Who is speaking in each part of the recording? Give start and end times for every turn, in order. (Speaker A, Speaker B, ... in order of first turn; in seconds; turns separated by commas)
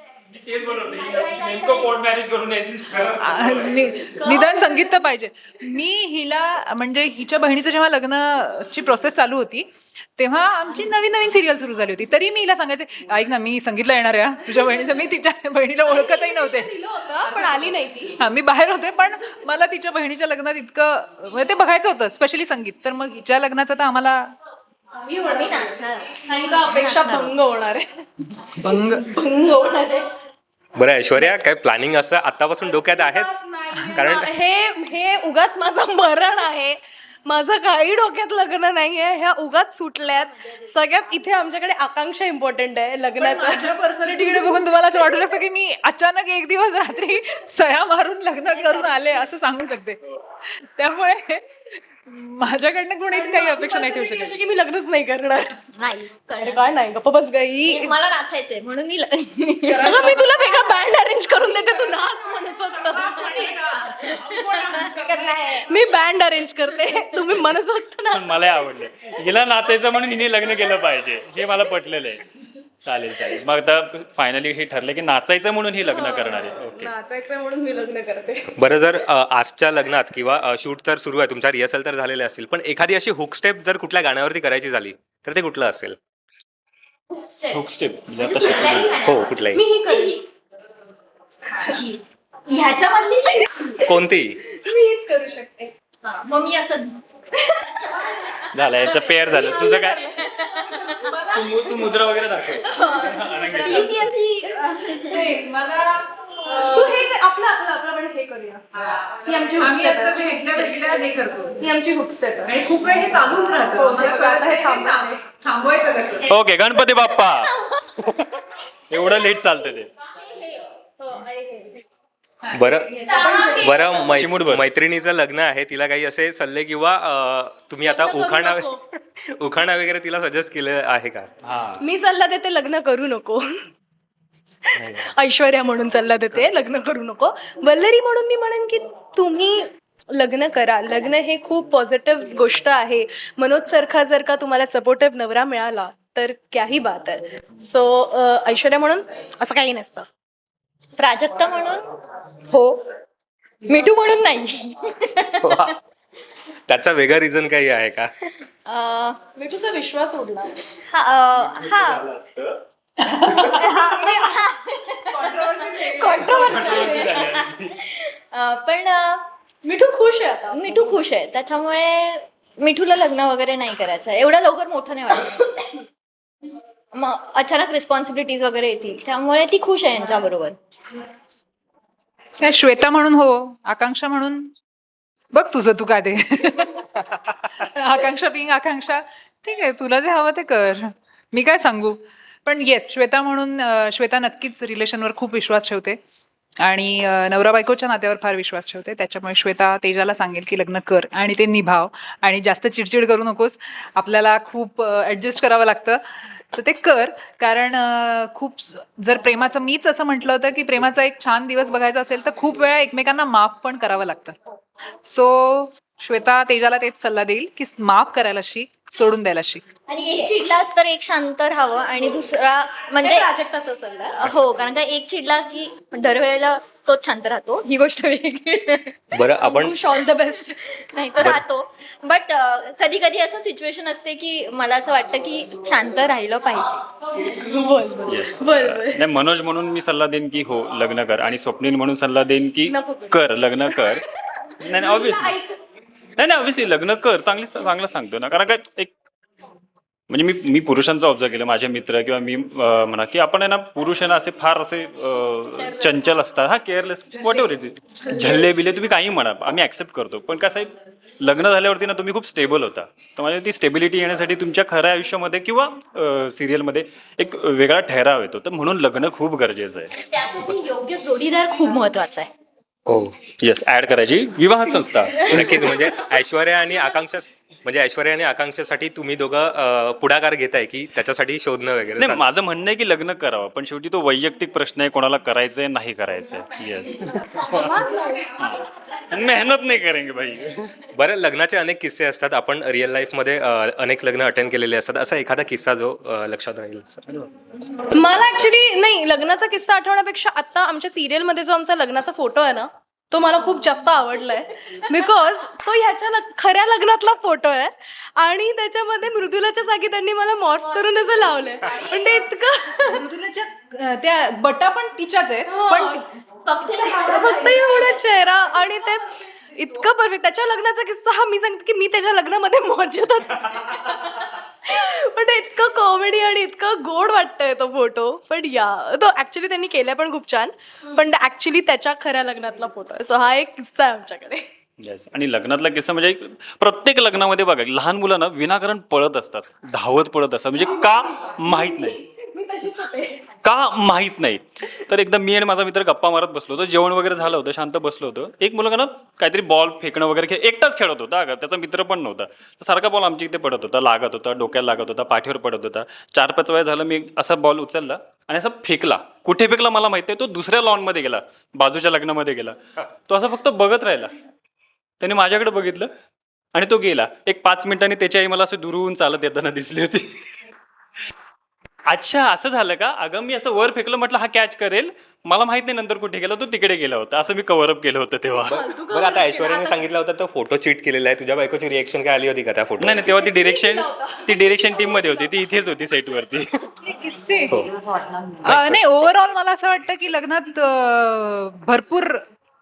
Speaker A: 0.3-4.3, Speaker B: 1.0-2.0, Speaker C: 3.2-24.3, Speaker B: 4.2-4.9, Speaker D: 14.5-14.9, Speaker D: 15.8-18.2, Speaker D: 25.0-25.8, Speaker B: 25.2-27.3, Speaker D: 26.3-27.9, Speaker C: 28.4-29.2, Speaker D: 28.9-30.1, Speaker E: 30.8-33.3, Speaker D: 32.6-44.3, Speaker C: 33.8-34.1, Speaker E: 33.9-34.3, Speaker B: 40.1-41.2, Speaker C: 43.2-54.4, Speaker B: 48.5-49.1, Speaker D: 53.1-55.6, Speaker B: 55.8-56.6, Speaker D: 56.4-57.9, Speaker B: 57.6-60.2, Speaker D: 59.7-63.5, Speaker C: 59.7-60.3, Speaker C: 63.2-65.6, Speaker B: 63.8-65.7, Speaker D: 65.1-68.4, Speaker A: 68.1-72.2, Speaker A: 72.8-76.9, Speaker D: 75.8-78.5, Speaker E: 78.5-86.0, Speaker B: 87.1-87.6, Speaker A: 87.5-89.0, Speaker B: 88.2-90.2, Speaker E: 89.0-89.6, Speaker D: 89.5-90.2, Speaker B: 91.6-93.8, Speaker E: 93.8-94.4, Speaker D: 94.5-95.7, Speaker B: 96.0-101.1, Speaker A: 98.5-100.2, Speaker D: 99.3-101.0, Speaker C: 101.0-101.8, Speaker A: 101.3-104.0, Speaker D: 102.6-105.3, Speaker B: 103.6-105.3, Speaker C: 105.0-107.0, Speaker D: 106.4-110.9, Speaker C: 109.6-111.7, Speaker D: 111.6-112.5, Speaker C: 112.5-116.3, Speaker D: 113.7-115.2, Speaker A: 116.3-118.3, Speaker A: 118.9-119.9, Speaker B: 120.1-120.7, Speaker D: 121.0-121.8, Speaker C: 122.4-123.6, Speaker E: 122.5-122.9, Speaker B: 123.0-124.0, Speaker D: 123.2-123.8, Speaker E: 123.6-128.7, Speaker A: 124.1-124.6, Speaker D: 127.8-128.8, Speaker E: 129.3-131.3, Speaker A: 131.4-131.8, Speaker D: 131.8-133.4, Speaker D: 134.7-150.1, Speaker E: 134.8-135.1, Speaker B: 151.0-151.8, Speaker B: 152.5-152.8, Speaker B: 153.7-155.7, Speaker E: 155.4-155.7, Speaker E: 156.7-158.1, Speaker B: 158.7-159.2, Speaker D: 159.4-160.6, Speaker B: 160.9-162.1, Speaker C: 163.0-163.6, Speaker B: 163.2-169.2, Speaker C: 165.1-167.1, Speaker A: 166.2-167.8, Speaker D: 169.6-170.9, Speaker B: 170.5-175.6, Speaker B: 176.9-180.6, Speaker C: 182.4-184.5, Speaker C: 185.3-186.9, Speaker C: 187.6-196.0, Speaker C: 196.6-214.4, Speaker C: 215.0-219.6, Speaker B: 219.9-223.3, Speaker D: 223.0-224.1, Speaker B: 224.1-228.9, Speaker E: 229.1-229.8, Speaker D: 229.4-230.6, Speaker B: 230.7-236.8, Speaker D: 237.1-239.0, Speaker A: 238.1-244.0, Speaker D: 242.7-244.0, Speaker A: 244.6-245.4, Speaker D: 244.7-245.5, Speaker A: 246.2-248.9, Speaker A: 250.1-269.9, Speaker D: 255.6-256.2, Speaker B: 269.9-272.3, Speaker E: 272.9-273.1, Speaker A: 273.4-275.6, Speaker E: 275.3-282.2, Speaker D: 275.5-275.9, Speaker A: 282.0-287.7, Speaker D: 287.3-288.4, Speaker A: 288.4-290.8, Speaker E: 290.9-297.3, Speaker D: 297.9-313.0, Speaker B: 311.7-311.9, Speaker C: 312.8-316.1, Speaker D: 315.5-316.0, Speaker B: 316.4-318.0, Speaker D: 316.9-334.4, Speaker A: 334.8-341.9, Speaker D: 340.6-343.2, Speaker A: 343.4-364.1, Speaker A: 365.0-365.9, Speaker A: 366.5-370.4, Speaker A: 371.9-378.6, Speaker E: 378.5-383.1, Speaker D: 378.5-379.9, Speaker A: 382.8-386.6, Speaker D: 383.1-385.3, Speaker C: 386.8-387.7, Speaker B: 387.8-388.2, Speaker C: 388.4-392.2, Speaker E: 388.5-388.9